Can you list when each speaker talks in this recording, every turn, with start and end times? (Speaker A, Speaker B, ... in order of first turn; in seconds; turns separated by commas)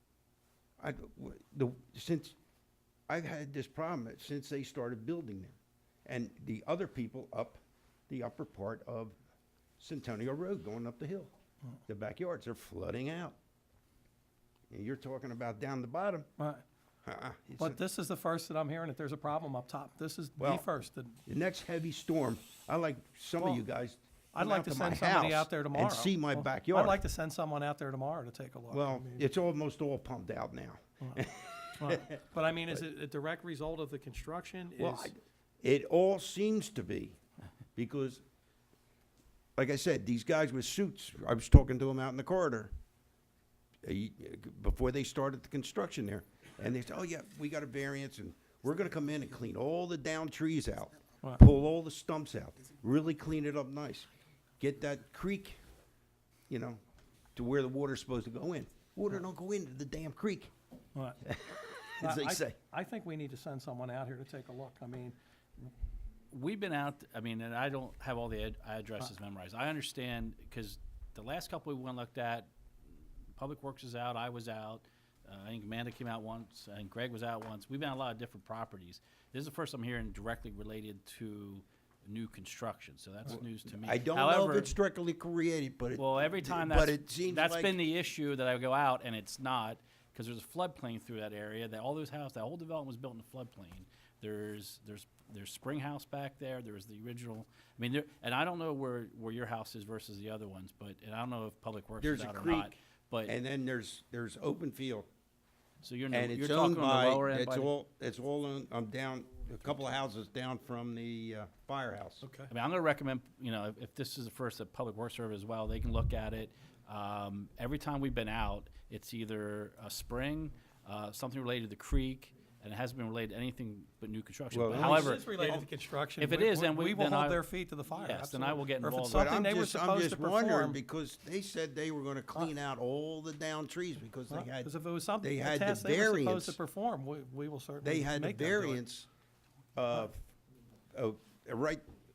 Speaker A: 0.8-2.4, Speaker A: 3.1-9.2, Speaker A: 9.8-11.3, Speaker A: 11.9-13.4, Speaker A: 14.7-16.3, Speaker B: 16.4-16.6, Speaker A: 17.1-17.8, Speaker B: 17.6-21.2, Speaker A: 20.4-20.6, Speaker A: 21.3-27.0, Speaker B: 24.3-29.3, Speaker A: 28.7-32.2, Speaker B: 31.8-35.1, Speaker A: 34.8-37.2, Speaker A: 37.8-38.2, Speaker A: 39.6-42.7, Speaker A: 43.8-54.1, Speaker A: 54.6-55.6, Speaker A: 56.5-56.8, Speaker A: 57.4-60.5, Speaker B: 61.0-61.2, Speaker A: 61.3-62.6, Speaker B: 62.0-65.2, Speaker C: 66.3-72.5, Speaker C: 73.4-84.8, Speaker A: 83.4-87.8, Speaker C: 86.0-103.3, Speaker A: 102.0-105.1, Speaker C: 105.8-107.7, Speaker A: 106.1-112.3, Speaker B: 112.2-112.5, Speaker C: 112.5-125.6, Speaker A: 124.5-125.7, Speaker B: 124.7-130.8, Speaker C: 126.2-129.4, Speaker A: 129.1-134.7, Speaker B: 134.3-138.8, Speaker A: 135.2-136.6, Speaker A: 137.8-139.1, Speaker A: 139.8-140.3, Speaker A: 140.9-141.8